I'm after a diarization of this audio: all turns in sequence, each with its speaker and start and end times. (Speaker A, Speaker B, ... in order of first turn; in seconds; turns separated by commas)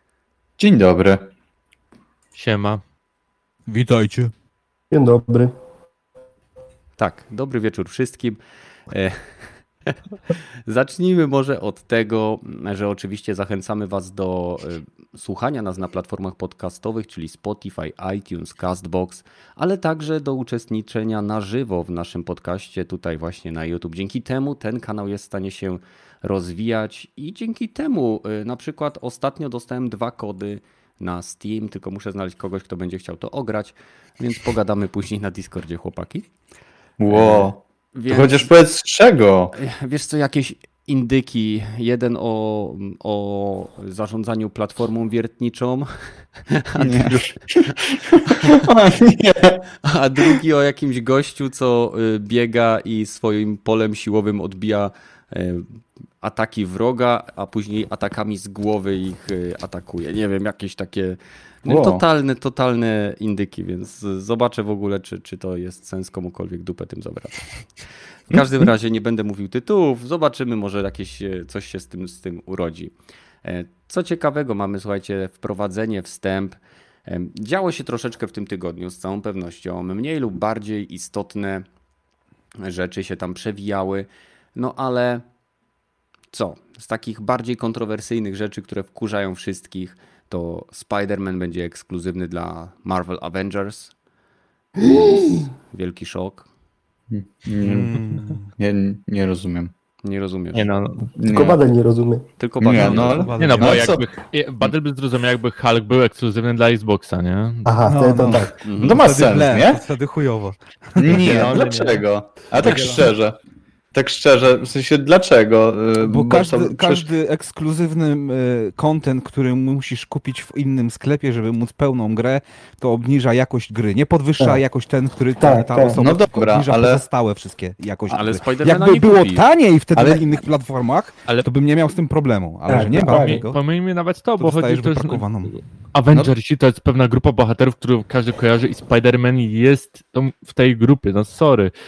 Speaker A: 0.6-1.2, Speaker B: 2.3-2.8, Speaker C: 3.7-4.3, Speaker D: 4.9-5.5, Speaker E: 7.0-8.4, Speaker E: 8.9-9.2, Speaker E: 10.7-36.3, Speaker A: 37.0-39.5, Speaker E: 37.1-38.5, Speaker E: 39.5-47.7, Speaker A: 46.8-49.6, Speaker E: 48.2-48.6, Speaker E: 49.8-67.5, Speaker A: 61.6-62.0, Speaker E: 68.3-81.6, Speaker E: 82.6-85.2, Speaker E: 86.3-93.9, Speaker D: 94.9-95.3, Speaker E: 95.7-96.5, Speaker A: 97.1-98.0, Speaker C: 97.6-98.5, Speaker A: 98.6-99.7, Speaker E: 100.0-100.7, Speaker B: 100.5-101.1, Speaker A: 101.2-101.6, Speaker D: 101.2-102.3, Speaker E: 102.4-103.3, Speaker A: 102.6-104.0, Speaker C: 102.8-104.0, Speaker B: 103.4-108.0, Speaker D: 107.6-108.5, Speaker C: 107.9-111.5, Speaker E: 108.6-109.0, Speaker A: 108.8-109.8, Speaker A: 111.0-113.4, Speaker B: 111.1-112.0, Speaker B: 112.6-113.0, Speaker A: 113.9-117.0, Speaker C: 116.0-133.6, Speaker D: 125.4-126.0, Speaker A: 125.9-127.0, Speaker E: 128.1-129.4, Speaker A: 129.9-130.2, Speaker D: 132.7-133.4, Speaker B: 133.1-141.7, Speaker C: 134.4-135.5